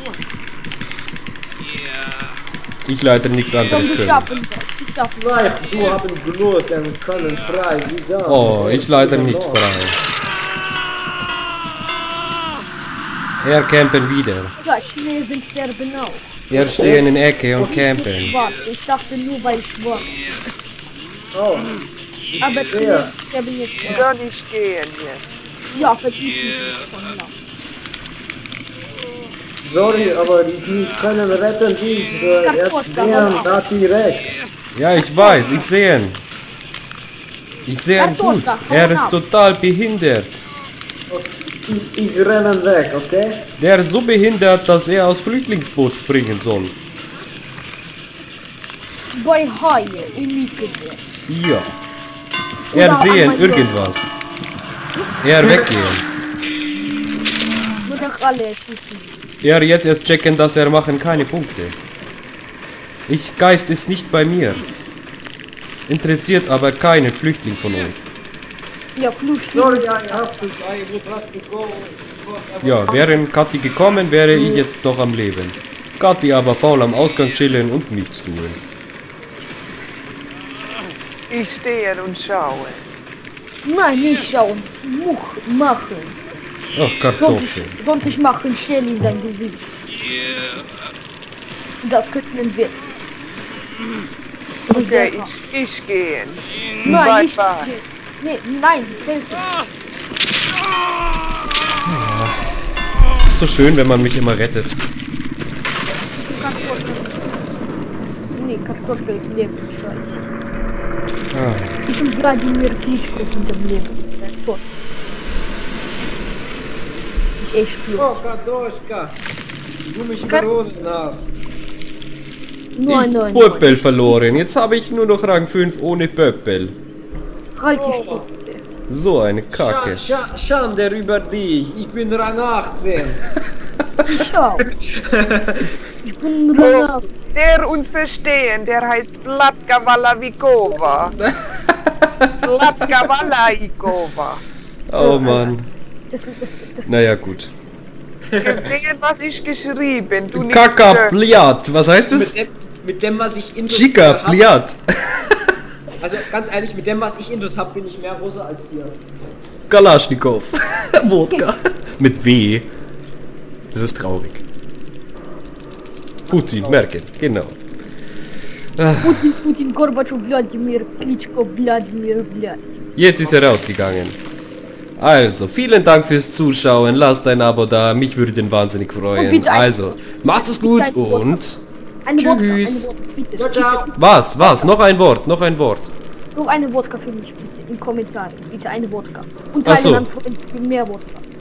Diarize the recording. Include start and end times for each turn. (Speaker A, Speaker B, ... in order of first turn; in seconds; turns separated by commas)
Speaker A: 2.9-4.3, Speaker B: 3.6-5.8, Speaker C: 5.2-9.7, Speaker A: 8.2-10.0, Speaker A: 13.4-14.5, Speaker B: 14.6-16.5, Speaker A: 16.5-18.3, Speaker C: 16.5-17.1, Speaker C: 17.6-17.9, Speaker B: 17.6-20.1, Speaker C: 21.3-21.7, Speaker C: 22.3-23.1, Speaker B: 22.4-24.1, Speaker D: 23.8-25.3, Speaker B: 25.7-27.3, Speaker C: 29.6-34.4, Speaker B: 32.4-33.5, Speaker A: 34.7-36.2, Speaker B: 35.0-35.6, Speaker A: 37.7-40.4, Speaker B: 38.0-39.2, Speaker C: 41.1-43.5, Speaker A: 43.6-46.8, Speaker B: 49.1-51.0, Speaker A: 51.3-51.8, Speaker B: 52.7-53.9, Speaker A: 52.7-54.1, Speaker A: 55.2-56.0, Speaker B: 57.8-59.2, Speaker A: 59.4-61.8, Speaker A: 63.1-64.6, Speaker A: 65.9-68.0, Speaker B: 69.0-70.4, Speaker C: 69.5-73.2, Speaker A: 72.6-78.6, Speaker D: 81.3-82.8, Speaker B: 83.6-86.2, Speaker A: 86.7-87.8, Speaker B: 87.2-89.7, Speaker B: 91.8-92.8, Speaker B: 94.7-95.3, Speaker D: 94.7-97.7, Speaker B: 96.8-99.5, Speaker A: 101.9-102.6, Speaker A: 103.2-104.8, Speaker B: 106.1-107.4, Speaker B: 108.3-110.2, Speaker A: 111.3-111.8, Speaker B: 111.9-114.6, Speaker B: 117.4-118.1, Speaker C: 117.9-119.2, Speaker C: 119.8-121.4, Speaker B: 122.7-124.4, Speaker A: 122.8-126.8, Speaker B: 127.5-128.6, Speaker C: 127.7-128.2, Speaker A: 128.9-130.0, Speaker C: 129.5-133.2, Speaker B: 134.1-134.7, Speaker C: 134.1-135.7, Speaker B: 136.0-137.0, Speaker D: 136.6-141.2, Speaker A: 141.7-142.3, Speaker D: 142.4-144.4, Speaker A: 144.9-145.7, Speaker B: 144.9-145.5, Speaker B: 146.1-147.0, Speaker A: 146.9-147.5, Speaker C: 148.3-148.7, Speaker D: 148.4-151.1, Speaker A: 150.3-152.3, Speaker C: 152.1-154.5, Speaker A: 153.7-155.5, Speaker C: 156.0-159.0, Speaker A: 159.7-162.7, Speaker A: 163.7-164.4, Speaker C: 166.2-166.9, Speaker A: 166.3-167.6, Speaker A: 168.8-169.3, Speaker B: 169.0-172.8, Speaker A: 172.9-174.2, Speaker C: 173.2-173.6, Speaker A: 175.0-181.6, Speaker B: 179.1-181.4, Speaker B: 182.0-184.7, Speaker A: 182.1-182.9, Speaker C: 183.4-183.9, Speaker A: 183.9-185.9, Speaker B: 186.3-191.2, Speaker A: 189.6-190.1